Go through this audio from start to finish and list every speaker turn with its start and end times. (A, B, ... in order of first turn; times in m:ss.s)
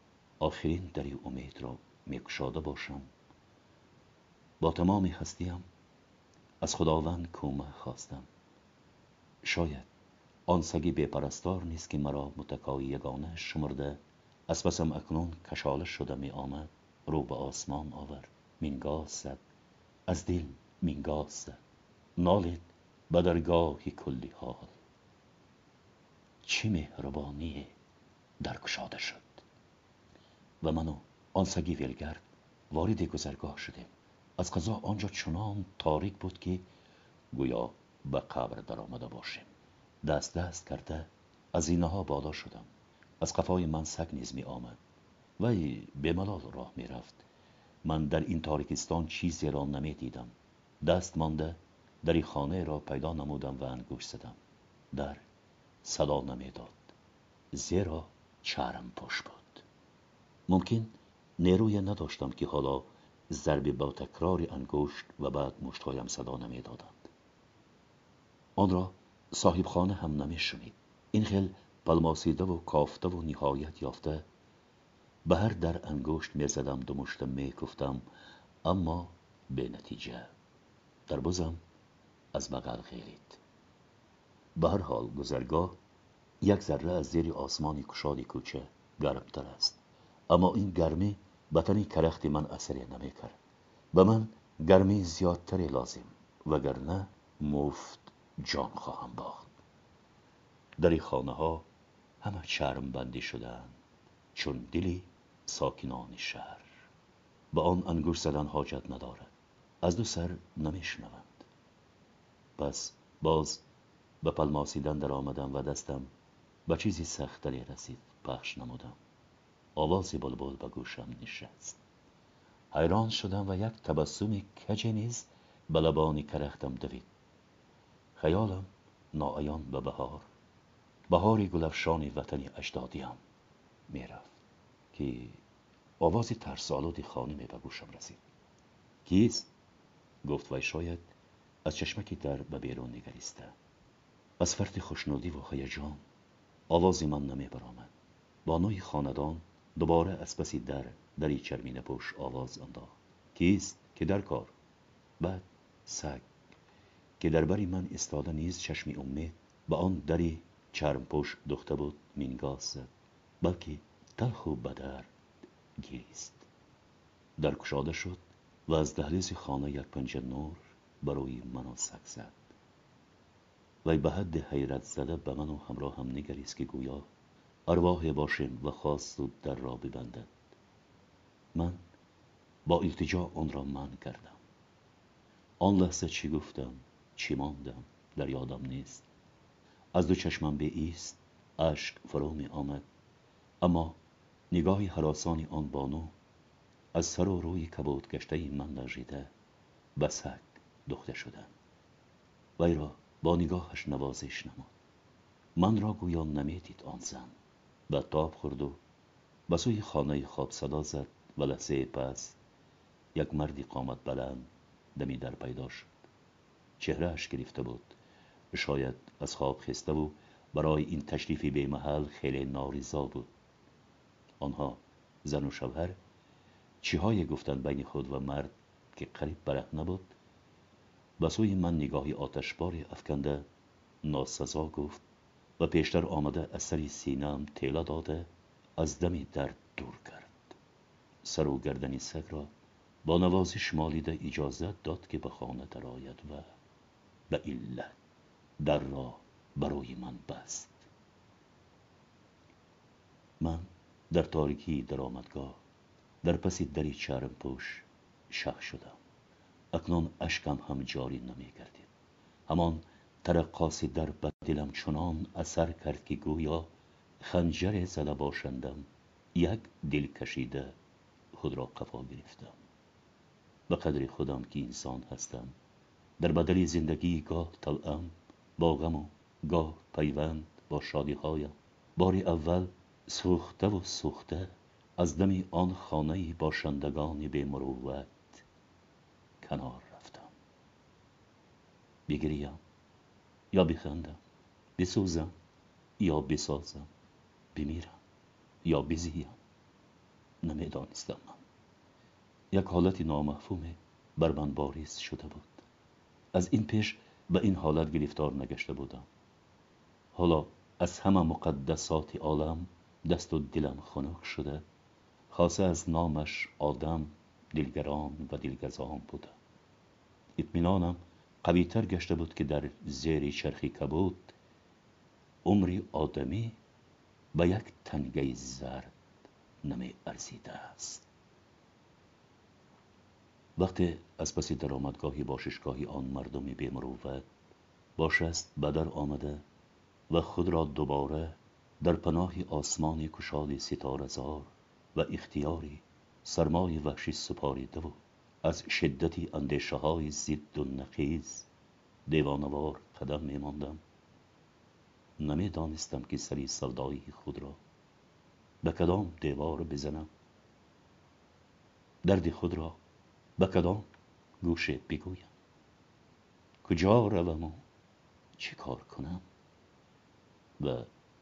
0:00.4-0:03.1 A
0:04.6-0:05.6 A
0:06.6-0:08.3 A
0:09.4-0:09.9 A
0:10.5-0:19.4 A
0:20.1-0:21.6 A
0:22.2-0:24.7 A
0:26.4-0:27.8 A
0:28.4-0:29.4 A
0:30.6-0:36.6 A
0:37.3-0:39.5 A
0:40.0-0:42.7 A
0:43.2-0:44.8 A
0:45.4-0:47.2 A
0:47.8-0:54.4 A
0:54.9-0:55.2 A
0:55.8-0:56.9 A
0:57.5-0:59.6 A
1:00.5-1:07.1 A
1:08.6-1:14.2 A
1:15.2-1:18.0 A
1:18.6-1:20.3 A
1:21.1-1:21.6 A
1:22.3-1:23.4 A
1:24.5-1:25.8 A
1:26.4-1:33.4 A
1:33.9-1:39.5 A
1:40.8-1:41.6 A
1:42.2-1:43.8 A
1:44.3-1:46.7 A
1:47.5-1:51.4 A
1:52.6-1:53.6 A
1:54.2-1:56.1 A
1:56.7-1:59.0 A
1:59.8-2:01.8 A
2:02.7-2:07.1 A
2:08.2-2:10.2 A
2:11.1-2:13.2 A
2:13.9-2:14.4 A
2:14.9-2:15.4 A
2:16.0-2:18.2 A
2:19.0-2:19.5 A
2:20.2-2:21.1 A
2:21.6-2:23.5 A
2:24.4-2:26.0 A
2:26.7-2:27.9 A
2:28.4-2:34.5 A
2:35.2-2:36.3 A
2:37.2-2:45.1 A
2:45.8-2:46.4 A
2:47.4-2:52.4 A
2:53.8-2:57.1 A
2:57.7-3:00.3 A
3:01.5-3:01.8 A
3:02.6-3:04.4 A
3:05.6-3:09.0 A
3:09.9-3:12.8 A
3:13.6-3:14.0 A
3:14.5-3:16.1 A
3:16.9-3:19.3 A
3:20.0-3:21.5 A
3:22.6-3:24.7 A
3:25.6-3:27.3 A
3:27.9-3:28.8 A
3:29.5-3:32.4 A
3:33.1-3:35.9 A
3:36.8-3:38.0 A
3:38.5-3:43.3 A
3:44.4-3:46.0 A
3:46.8-3:50.1 A
3:51.2-3:53.5 A
3:54.0-3:55.0 A
3:55.6-4:00.5 A
4:01.2-4:02.5 A
4:03.0-4:06.5 A
4:07.3-4:08.0 A
4:08.6-4:10.9 A
4:13.4-4:15.6 A
4:16.2-4:19.0 A
4:19.7-4:21.9 A
4:22.5-4:26.7 A
4:27.2-4:30.8 A
4:31.3-4:32.6 A
4:33.7-4:35.5 A
4:36.2-4:48.4 A
4:49.4-4:50.3 A
4:52.1-4:52.6 A
4:53.5-4:54.2 A
4:54.8-4:55.3 A
4:56.0-4:56.9 A
4:57.5-4:58.0 A
4:58.6-4:59.4 A
5:00.4-5:01.4 A
5:02.5-5:05.6 A
5:06.3-5:09.1 A
5:10.1-5:14.6 A
5:15.3-5:19.4 A
5:20.4-5:24.3 A
5:25.4-5:26.6 A
5:27.3-5:28.9 A
5:29.6-5:31.0 A
5:33.6-5:37.3 A
5:38.0-5:39.4 A
5:40.1-5:51.5 A
5:52.0-5:53.8 A
5:55.2-5:57.6 A
5:58.6-6:00.1 A
6:02.0-6:02.8 A
6:03.4-6:03.9 A
6:04.4-6:05.3 A
6:06.6-6:07.6 A
6:08.4-6:09.2 A
6:10.6-6:10.9 A